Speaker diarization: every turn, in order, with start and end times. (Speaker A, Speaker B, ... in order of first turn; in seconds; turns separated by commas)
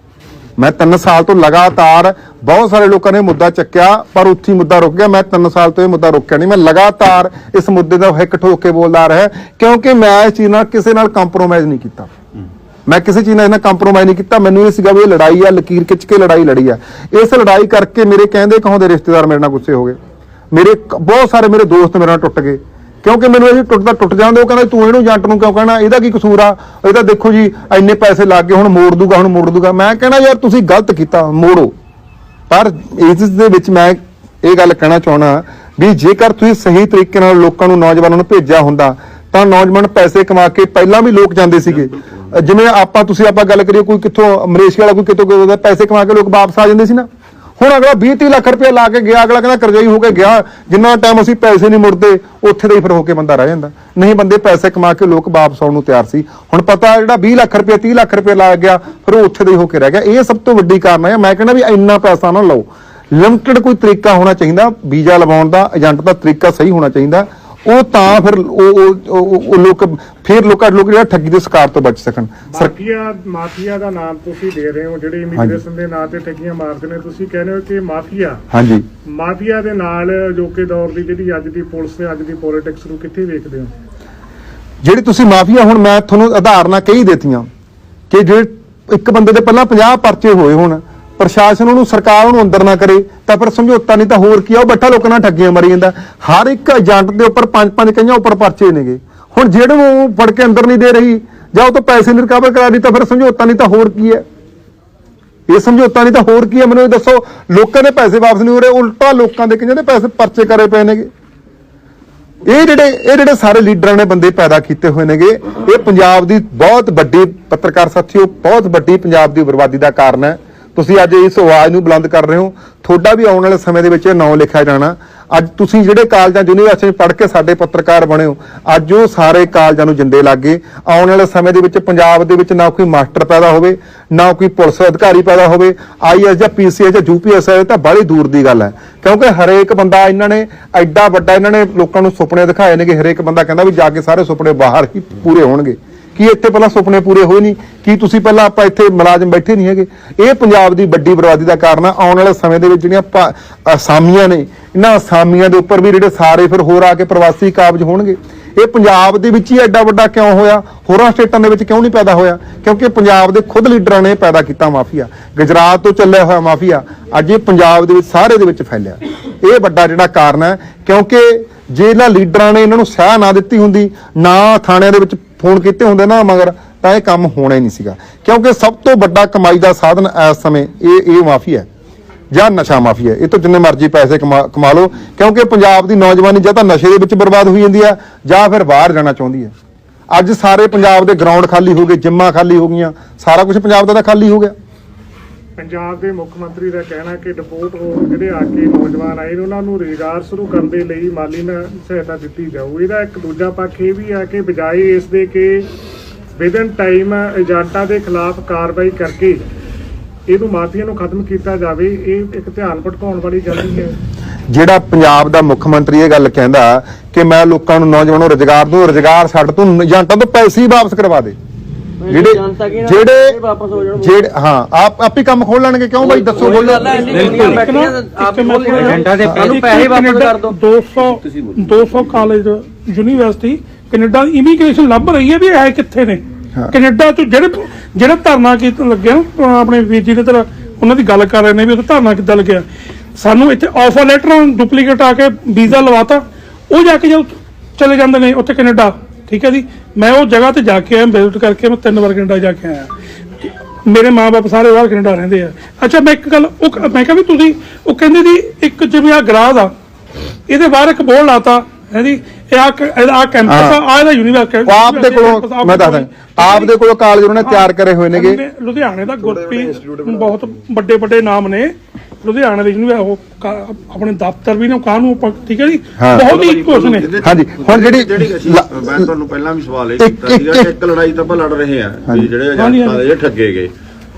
Speaker A: 0.6-12.1, Speaker A: 12.9-20.0, Speaker A: 20.5-31.7, Speaker A: 32.5-72.7, Speaker B: 72.5-78.4, Speaker A: 78.5-78.8, Speaker B: 79.1-83.7, Speaker A: 84.8-87.5, Speaker A: 88.1-104.2, Speaker A: 105.5-111.1, Speaker A: 112.5-181.7, Speaker A: 182.3-189.5, Speaker A: 190.1-194.5, Speaker B: 195.6-205.7, Speaker B: 206.4-209.4, Speaker B: 210.3-213.9, Speaker A: 214.5-221.4, Speaker C: 222.0-224.2, Speaker A: 222.1-223.4, Speaker A: 224.0-227.1, Speaker C: 226.0-230.6, Speaker D: 226.9-259.7, Speaker C: 231.2-231.5, Speaker D: 260.5-266.7, Speaker A: 263.5-263.8, Speaker A: 264.7-268.4, Speaker D: 267.4-277.1, Speaker A: 276.0-276.4, Speaker E: 276.1-283.7, Speaker A: 277.2-278.7, Speaker A: 280.0-280.7, Speaker D: 282.6-283.0